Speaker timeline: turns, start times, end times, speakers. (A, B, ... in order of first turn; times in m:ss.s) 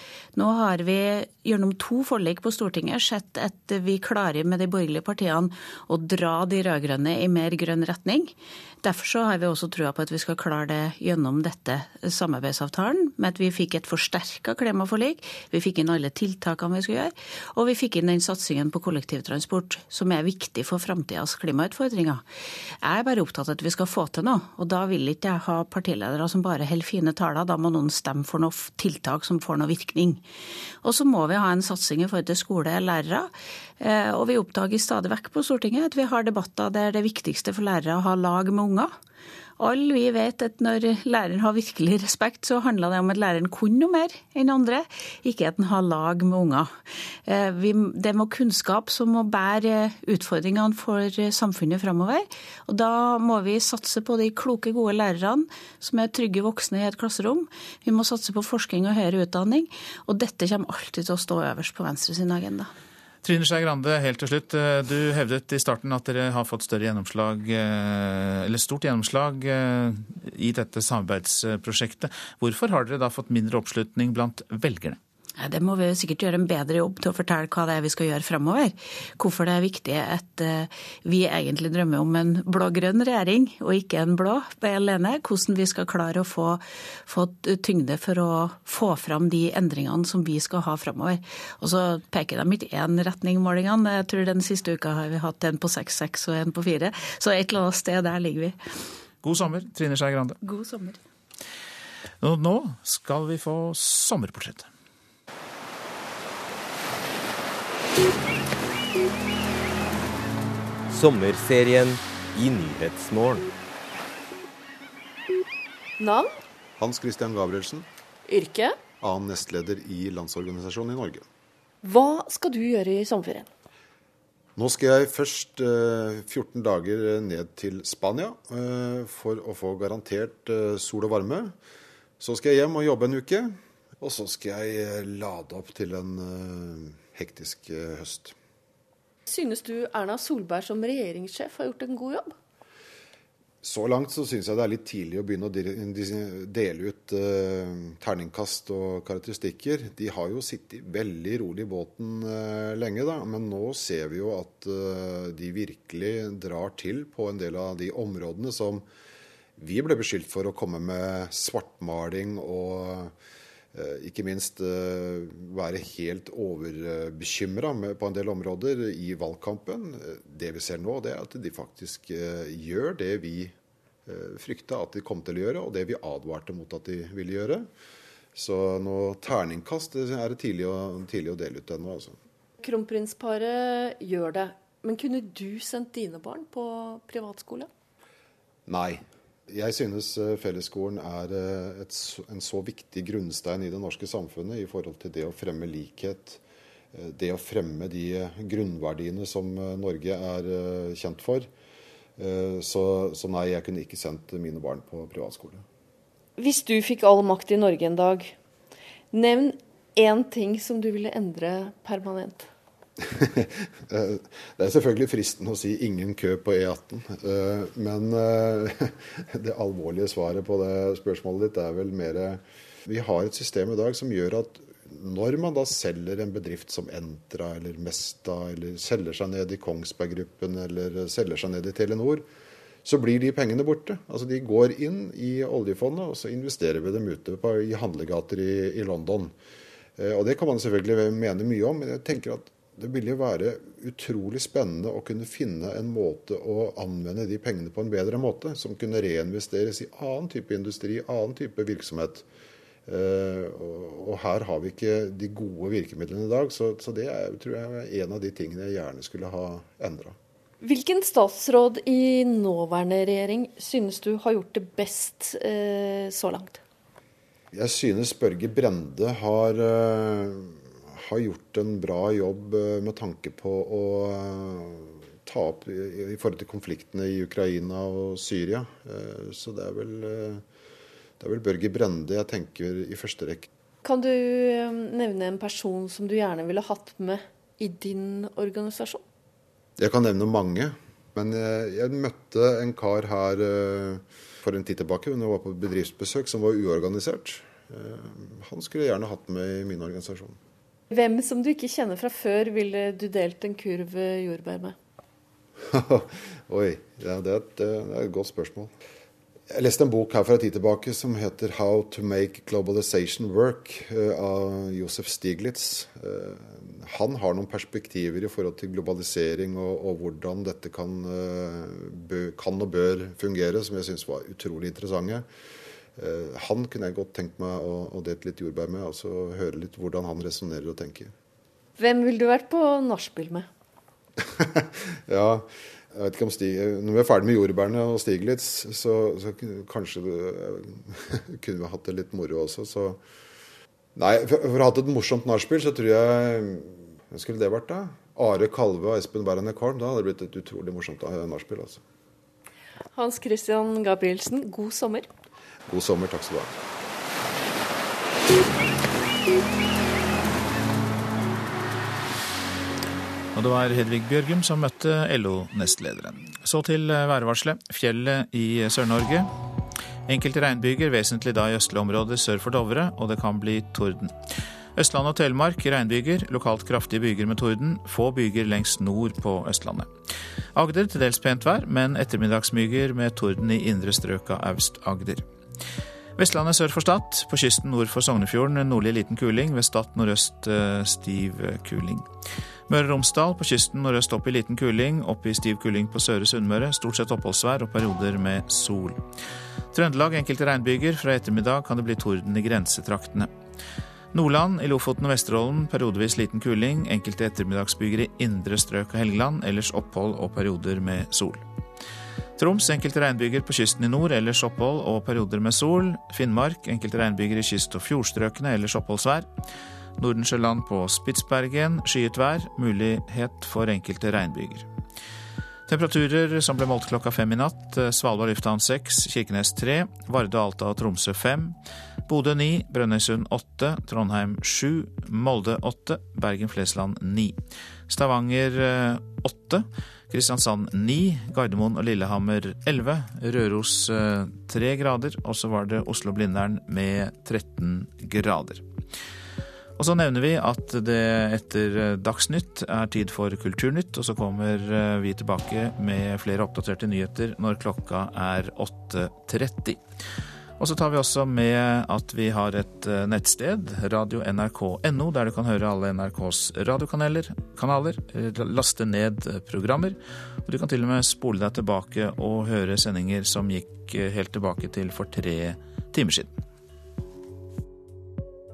0:00.4-0:08.3 A
0:08.8-0:22.2 A
0:22.8-0:30.2 A
0:30.8-0:33.3 A
0:33.8-0:38.9 A
0:39.6-0:46.7 A
0:47.3-1:02.7 A
1:03.2-1:15.0 B
1:15.4-1:38.6 A
1:39.2-1:40.4 B
1:40.4-1:41.0 A
1:42.2-1:44.7 B
1:50.9-1:53.5 C
1:56.0-1:56.3 D
1:56.8-1:57.8 E
1:58.3-1:58.8 D
1:59.0-2:01.2 E
2:01.8-2:03.5 D
2:04.6-2:11.5 E
2:12.2-2:18.3 E
2:19.2-2:22.3 D
2:23.6-2:38.8 E
2:39.6-2:43.1 E
2:43.7-2:53.5 E
2:54.0-2:57.7 E
2:58.3-3:02.2 E
3:02.6-3:07.7 D
3:08.7-3:16.4 E
3:16.9-3:21.5 E
3:22.2-3:25.6 E
3:26.4-3:28.3 D
3:29.1-3:32.5 D
3:33.1-3:52.2 E
3:52.8-3:59.3 E
4:00.0-4:12.2 E
4:12.9-4:20.1 E
4:20.6-4:26.6 D
4:27.5-4:40.4 E
4:41.2-4:43.5 E
4:43.8-4:49.0 D
4:49.8-5:00.4 E
5:00.9-5:04.7 D
5:05.7-5:08.7 E
5:09.5-5:25.2 E
5:26.0-5:31.1 E
5:31.8-5:33.5 D
5:34.3-5:43.0 E
5:44.0-5:51.8 E
5:52.9-5:55.1 D
5:55.7-5:56.5 E
6:03.3-6:09.3 B
6:10.1-6:14.1 B
6:14.8-6:19.9 B
6:20.5-6:25.2 B
6:26.2-6:32.1 B
6:32.7-6:39.0 B
6:39.7-6:43.3 B
6:44.1-6:51.4 B
6:52.4-6:59.3 B
7:00.0-7:04.7 B
7:05.7-7:11.6 B
7:12.1-7:17.4 B
7:17.9-7:28.6 B
7:29.8-7:39.8 B
7:40.6-7:56.4 B